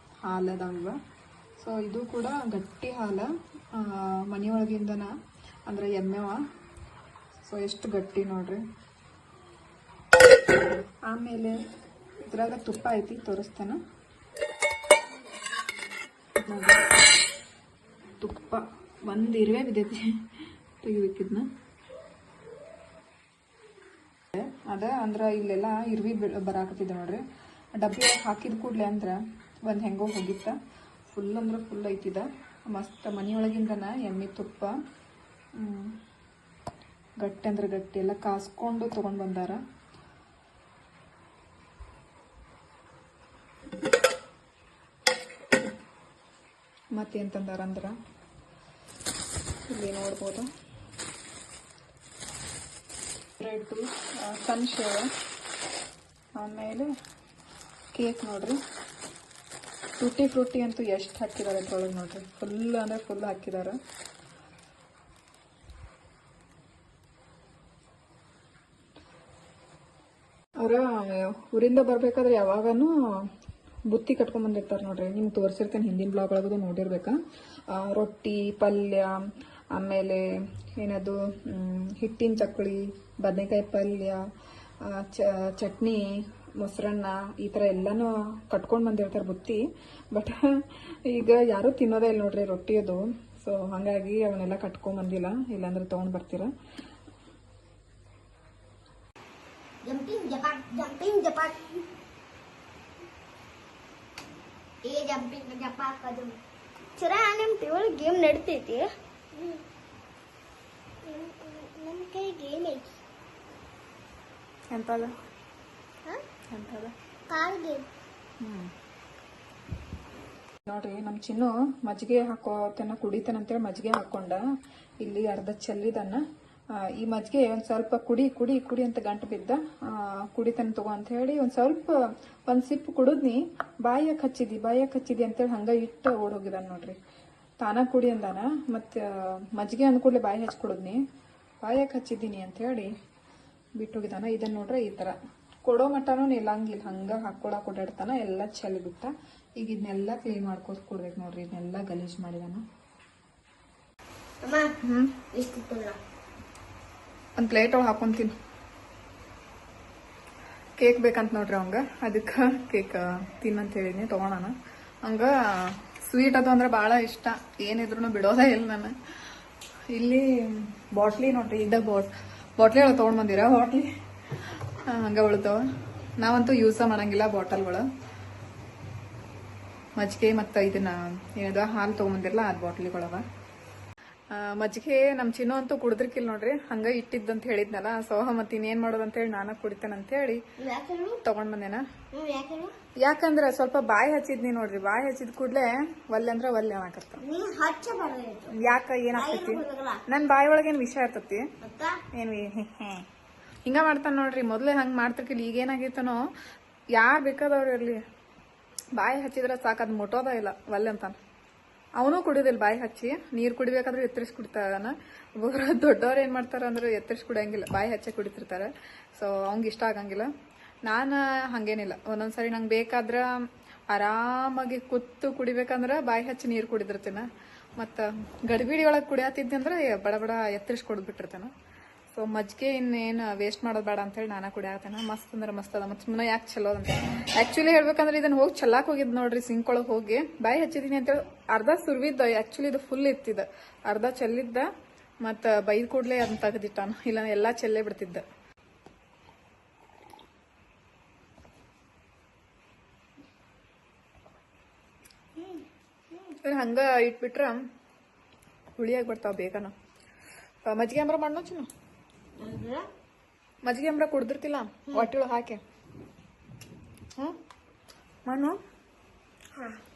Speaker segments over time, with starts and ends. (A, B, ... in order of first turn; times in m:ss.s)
0:00.2-0:01.0 A
0:01.6-0:05.1 A
0:05.7-0:06.4 A
0:07.4-0:08.6 A
0:10.9-0:11.6 A
0:12.2-0:13.8 A
0:16.4-0:16.8 A
0:18.2-0:20.2 A
0:20.8-0:21.4 A
0:24.3-0:27.2 A
0:27.8-0:30.6 A
0:31.1-0:34.8 A
0:35.6-0:36.0 A
0:37.2-0:39.6 A
0:46.9-0:48.0 A
0:49.7-0:50.5 A
0:53.4-0:55.1 A
0:56.4-0:56.9 A
0:57.9-0:58.6 A
1:00.0-1:03.8 A
1:10.6-1:13.3 A
1:13.9-1:17.2 A
1:17.7-1:24.2 A
1:24.8-1:30.4 A
1:31.1-1:36.5 A
1:39.8-1:41.6 B
1:44.8-1:46.3 B
1:47.0-1:49.6 B
1:51.0-1:52.8 B
1:54.7-1:55.1 A
1:56.5-1:56.9 A
1:57.3-1:57.8 B
1:58.4-1:58.7 A
2:00.7-2:04.4 A
2:05.0-2:06.2 A
2:06.8-2:17.0 A
2:17.6-2:21.0 A
2:21.6-2:22.9 A
2:23.8-2:32.6 A
2:34.4-2:34.7 B
2:34.8-2:35.1 A
2:35.3-2:36.0 B
2:37.4-2:38.3 A
2:40.8-2:49.0 A
2:49.9-2:53.9 A
2:54.9-2:55.6 A
2:56.2-2:57.8 A
3:00.0-3:03.2 A
3:04.3-3:10.4 A
3:10.6-3:11.2 B
3:11.2-3:11.8 A
3:12.1-3:12.7 B
3:13.0-3:17.2 A
3:17.2-3:18.5 B
3:18.6-3:21.4 A
3:19.2-3:20.0 B
3:21.6-3:22.0 B
3:22.1-3:23.0 A
3:23.6-3:26.3 A
3:26.9-3:28.0 A
3:29.0-3:31.2 A
3:32.0-3:40.3 A
3:40.8-3:43.4 A
3:43.9-3:51.5 A
3:52.1-4:04.7 A
4:05.2-4:08.2 A
4:16.4-4:17.6 A
4:18.8-4:19.7 A
4:20.6-4:21.7 A
4:22.4-4:22.9 B
4:23.6-4:25.6 A
4:28.2-4:28.6 A